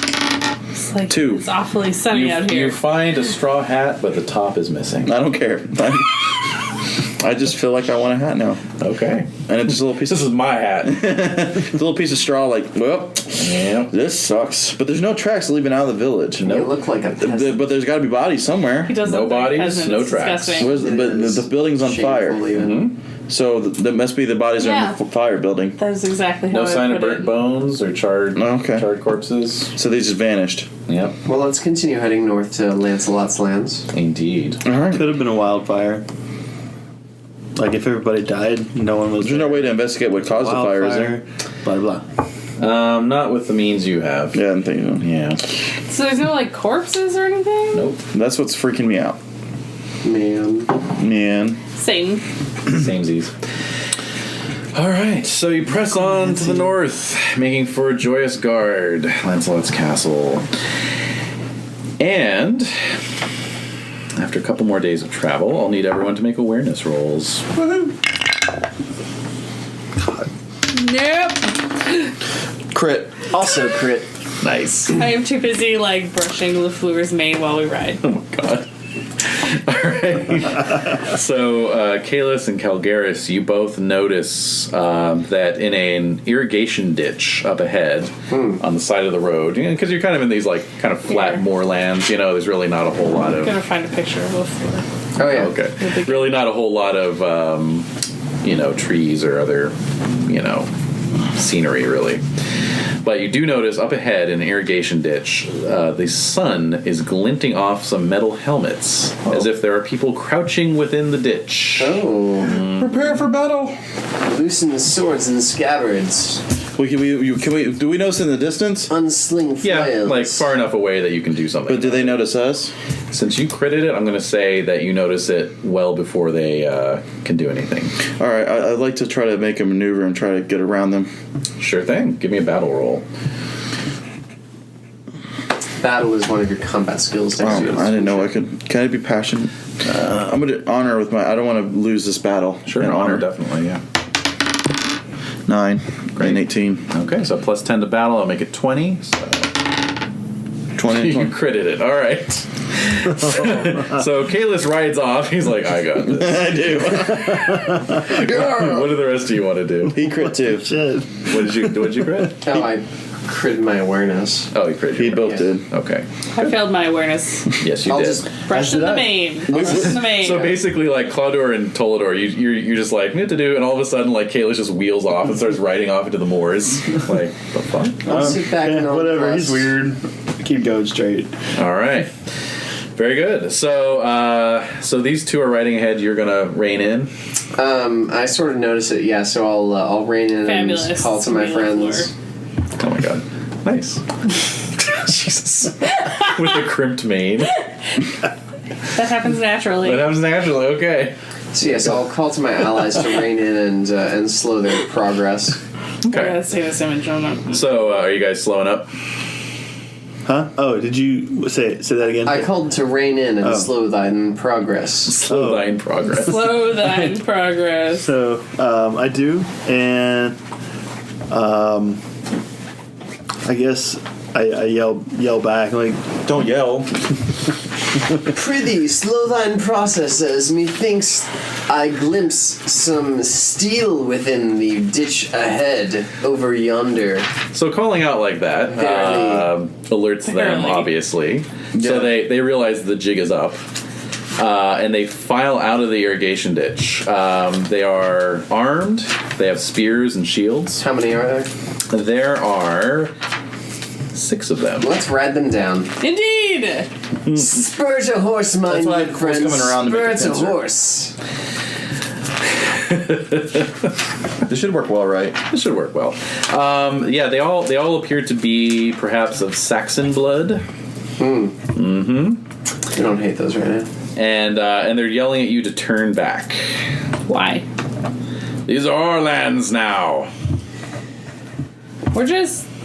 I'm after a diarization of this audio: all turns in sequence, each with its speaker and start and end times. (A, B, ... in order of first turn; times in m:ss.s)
0:00.7-0:02.8 A
0:01.1-0:01.4 B
0:02.1-0:05.1 C
0:05.0-0:06.5 B
0:07.2-0:08.6 B
0:08.8-0:09.3 C
0:09.5-0:10.3 B
0:10.0-0:11.1 C
0:10.8-0:19.0 B
0:13.4-0:13.9 C
0:16.4-0:17.6 D
0:18.8-0:20.7 A
0:19.0-0:20.6 C
0:20.6-0:22.5 B
0:20.6-0:22.8 D
0:22.6-0:23.0 C
0:23.3-0:25.8 B
0:24.6-0:25.0 A
0:25.8-0:27.3 A
0:26.5-0:29.7 C
0:28.4-0:28.9 B
0:29.7-0:30.7 B
0:30.9-0:31.2 C
0:31.2-0:33.8 D
0:33.9-0:34.6 C
0:34.6-0:35.0 B
0:34.9-0:36.0 E
0:37.6-0:42.0 E
0:39.2-0:41.2 B
0:42.6-0:44.4 C
0:44.3-0:45.4 B
0:45.9-0:47.8 A
0:47.7-0:48.0 C
0:48.1-0:49.2 B
0:50.0-0:50.7 D
0:50.9-0:51.6 B
0:51.8-0:52.2 A
0:52.7-0:53.3 C
0:54.7-1:00.4 C
1:02.0-1:02.7 C
1:04.2-1:07.4 C
1:10.7-1:12.0 A
1:12.7-1:13.6 B
1:13.4-1:14.0 D
1:14.4-1:15.0 C
1:14.9-1:18.0 A
1:18.0-1:18.7 C
1:19.2-1:33.6 C
1:28.3-1:28.6 D
1:31.1-1:31.4 A
1:33.3-1:34.9 A
1:35.2-1:35.5 D
1:35.2-1:37.9 C
1:35.8-1:36.4 A
1:38.4-1:40.7 C
1:41.3-1:42.2 C
1:43.0-1:52.9 C
1:51.8-1:52.5 D
1:52.4-1:53.8 B
1:54.2-1:56.4 D
1:56.8-1:58.9 B
1:58.9-2:00.5 D
1:59.6-2:02.2 C
2:01.7-2:02.7 B
2:03.1-2:08.0 C
2:08.2-2:11.1 B
2:11.6-2:13.0 C
2:15.8-2:18.3 D
2:17.4-2:23.2 B
2:22.6-2:23.8 C
2:25.4-2:26.8 B
2:26.2-2:29.5 C
2:30.8-2:31.4 B
2:30.9-2:40.0 C
2:36.0-2:37.5 B
2:38.4-2:38.8 D
2:39.9-2:40.7 B
2:40.3-2:42.3 E
2:41.2-2:42.4 C
2:42.4-2:44.5 D
2:44.5-2:46.6 C
2:44.9-2:45.6 B
2:46.3-2:47.6 A
2:47.6-2:48.2 C
2:47.8-2:50.1 D
2:48.4-2:50.6 A
2:49.5-2:58.1 C
2:58.0-3:01.3 E
2:58.0-2:59.7 D
3:01.6-3:02.1 C
3:03.0-3:07.1 C
3:07.6-3:12.1 D
3:10.4-3:12.1 A
3:12.8-3:14.0 C
3:14.7-3:17.6 C
3:18.9-3:20.0 A
3:19.8-3:21.1 C
3:21.5-3:25.6 D
3:26.0-3:26.4 C
3:26.1-3:27.7 A
3:27.5-3:28.9 C
3:30.2-3:32.5 E
3:32.2-3:35.2 D
3:33.4-3:33.8 E
3:35.0-3:36.5 C
3:35.2-3:35.8 E
3:36.1-3:38.1 A
3:37.9-3:40.4 E
3:41.3-3:42.0 E
3:43.4-3:46.2 E
3:46.2-3:46.9 B
3:48.3-3:57.3 D
3:57.5-4:03.7 C
3:58.7-3:59.5 D
4:00.2-4:00.9 A
4:01.8-4:02.1 B
4:04.4-4:10.8 C
4:10.8-4:11.5 D
4:11.9-4:13.1 C
4:14.1-4:14.9 C
4:14.8-4:15.9 D
4:16.0-4:16.9 A
4:17.3-4:21.1 D
4:18.6-4:20.6 B
4:22.7-4:23.6 C
4:24.4-4:25.4 B
4:25.4-4:30.6 C
4:31.2-4:31.5 D
4:31.7-4:32.4 C
4:32.9-4:33.9 D
4:34.2-4:36.7 C
4:37.2-4:37.6 A
4:38.7-4:40.3 C
4:42.1-4:42.6 A